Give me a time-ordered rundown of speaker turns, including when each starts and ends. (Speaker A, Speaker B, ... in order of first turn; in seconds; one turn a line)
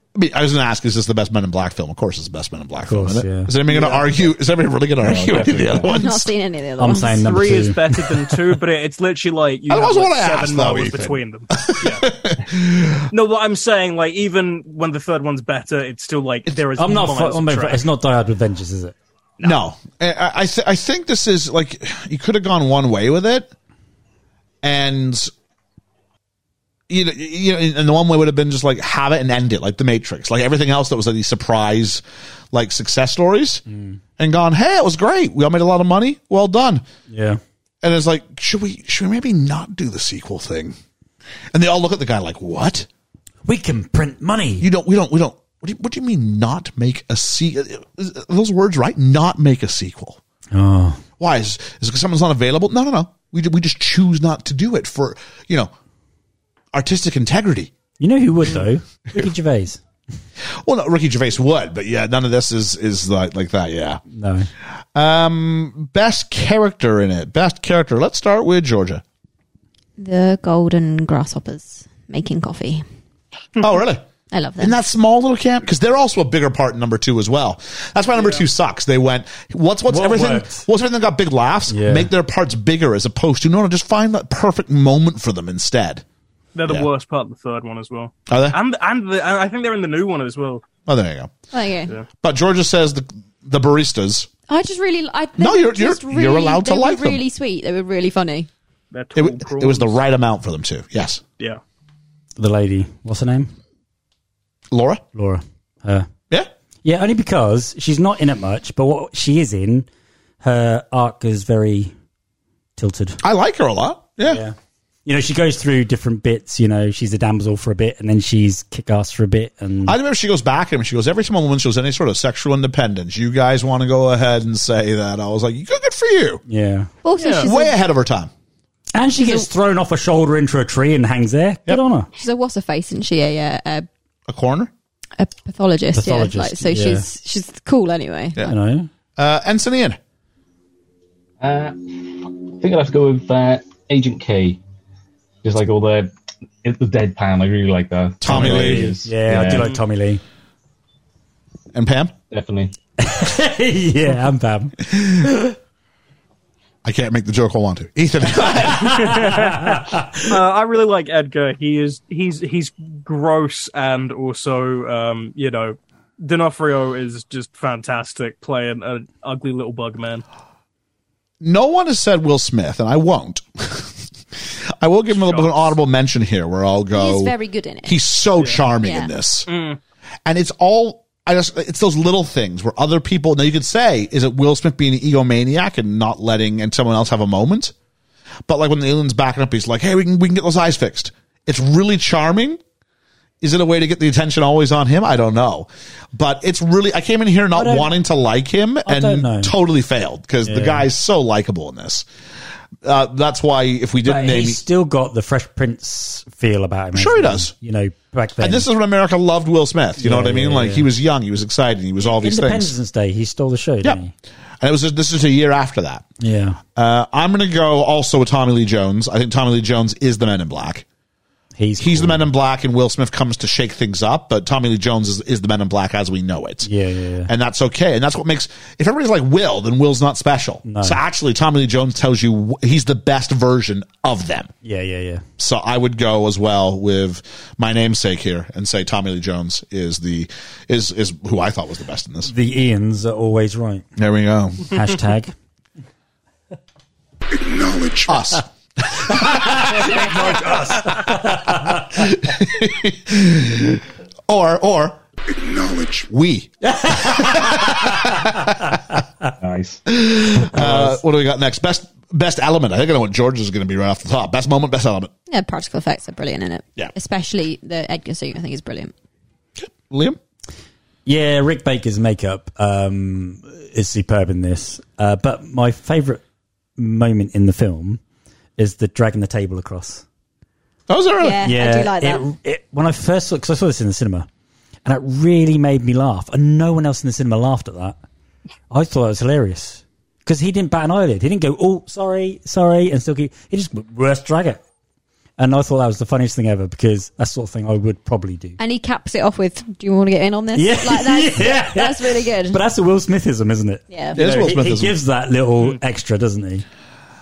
Speaker A: 0.1-6.3
Speaker B: 2.8-3.5
Speaker C: 3.7-4.2
Speaker D: 5.0-5.9
Speaker E: 5.8-7.2
Speaker B: 6.8-8.0
Speaker C: 7.1-12.1
Speaker A: 9.7-13.1
Speaker C: 13.1-17.9
Speaker B: 16.8-18.9
Speaker A: 19.4-23.5
Speaker A: 24.6-25.3
Speaker A: 26.9-33.6
Speaker B: 33.7-34.0
Speaker A: 34.2-36.9
Speaker B: 37.1-37.4
Speaker A: 37.8-40.8
Speaker A: 41.5-42.9
Speaker B: 43.4-44.7
Speaker A: 44.6-50.2
Speaker B: 50.5-51.0
Speaker A: 51.2-55.7
Speaker A: 56.7-57.7
Speaker B: 58.0-59.8
Speaker A: 60.6-64.0
Speaker B: 64.1-64.5
Speaker A: 64.9-69.0
Speaker E: 70.0-72.8
Speaker A: 73.6-74.0
Speaker E: 74.3-74.8
Speaker A: 74.6-86.0
Speaker C: 78.1-78.5
Speaker B: 79.9-80.7
Speaker B: 81.7-82.1
Speaker C: 86.5-90.7
Speaker A: 88.3-88.6
Speaker A: 90.9-91.3
Speaker E: 91.5-91.9
Speaker A: 92.2-94.3
Speaker E: 94.5-98.5
Speaker A: 95.4-97.2
Speaker C: 98.9-100.0
Speaker A: 99.2-101.2
Speaker B: 102.4-103.5
Speaker A: 104.7-105.0
Speaker B: 105.1-106.1
Speaker B: 106.8-109.9
Speaker B: 110.4-111.9
Speaker B: 112.8-113.2
Speaker A: 113.2-114.4
Speaker B: 114.2-119.9
Speaker A: 119.8-126.4
Speaker B: 126.5-126.9
Speaker E: 127.0-127.8
Speaker C: 127.2-127.5
Speaker A: 127.4-128.3
Speaker B: 128.9-132.1
Speaker E: 129.2-129.5
Speaker E: 132.2-133.9
Speaker A: 134.3-134.7
Speaker E: 135.2-138.4
Speaker B: 135.9-137.1
Speaker B: 138.4-138.9
Speaker A: 139.2-140.0
Speaker D: 141.4-144.6
Speaker D: 145.4-146.1
Speaker D: 146.6-149.8
Speaker A: 148.2-148.9
Speaker B: 148.2-150.2
Speaker C: 149.4-149.8
Speaker A: 151.7-152.1
Speaker D: 152.3-152.7
Speaker B: 153.0-155.5
Speaker A: 154.9-155.4
Speaker A: 156.8-159.1
Speaker B: 158.5-160.4
Speaker C: 158.8-170.2
Speaker A: 171.4-177.3
Speaker C: 175.1-175.7
Speaker E: 176.9-178.0
Speaker A: 177.8-179.5
Speaker E: 178.8-179.1
Speaker C: 179.5-179.8
Speaker A: 180.3-187.7
Speaker A: 188.5-192.6
Speaker A: 193.4-202.1
Speaker B: 197.5-197.9
Speaker B: 198.8-199.5
Speaker B: 200.4-200.9
Speaker A: 202.8-204.6
Speaker B: 204.1-208.7
Speaker A: 206.9-207.5
Speaker A: 208.4-212.7
Speaker B: 210.0-210.9
Speaker B: 212.1-214.1
Speaker A: 214.6-216.1
Speaker B: 216.2-216.6
Speaker A: 216.7-220.9
Speaker B: 221.6-222.3
Speaker A: 221.8-226.7
Speaker B: 226.7-227.3
Speaker A: 227.3-234.5
Speaker B: 230.7-231.0
Speaker B: 234.6-235.2
Speaker A: 235.4-242.3
Speaker B: 242.2-243.8
Speaker A: 244.0-244.8
Speaker B: 244.7-245.3
Speaker A: 247.5-250.5
Speaker B: 249.1-252.1
Speaker A: 251.7-255.0
Speaker A: 255.5-258.7
Speaker B: 256.6-258.5
Speaker D: 259.4-259.8
Speaker A: 259.9-265.1
Speaker B: 260.4-261.0
Speaker E: 265.3-268.9
Speaker A: 269.6-270.2
Speaker B: 271.1-276.2
Speaker B: 276.8-278.0
Speaker B: 278.6-280.1
Speaker A: 280.9-281.5
Speaker E: 281.2-282.3
Speaker B: 281.4-284.3
Speaker B: 284.9-288.0
Speaker B: 288.7-294.6
Speaker B: 295.4-298.6
Speaker E: 298.6-302.6
Speaker B: 300.6-306.6
Speaker E: 303.9-304.2
Speaker A: 304.1-304.9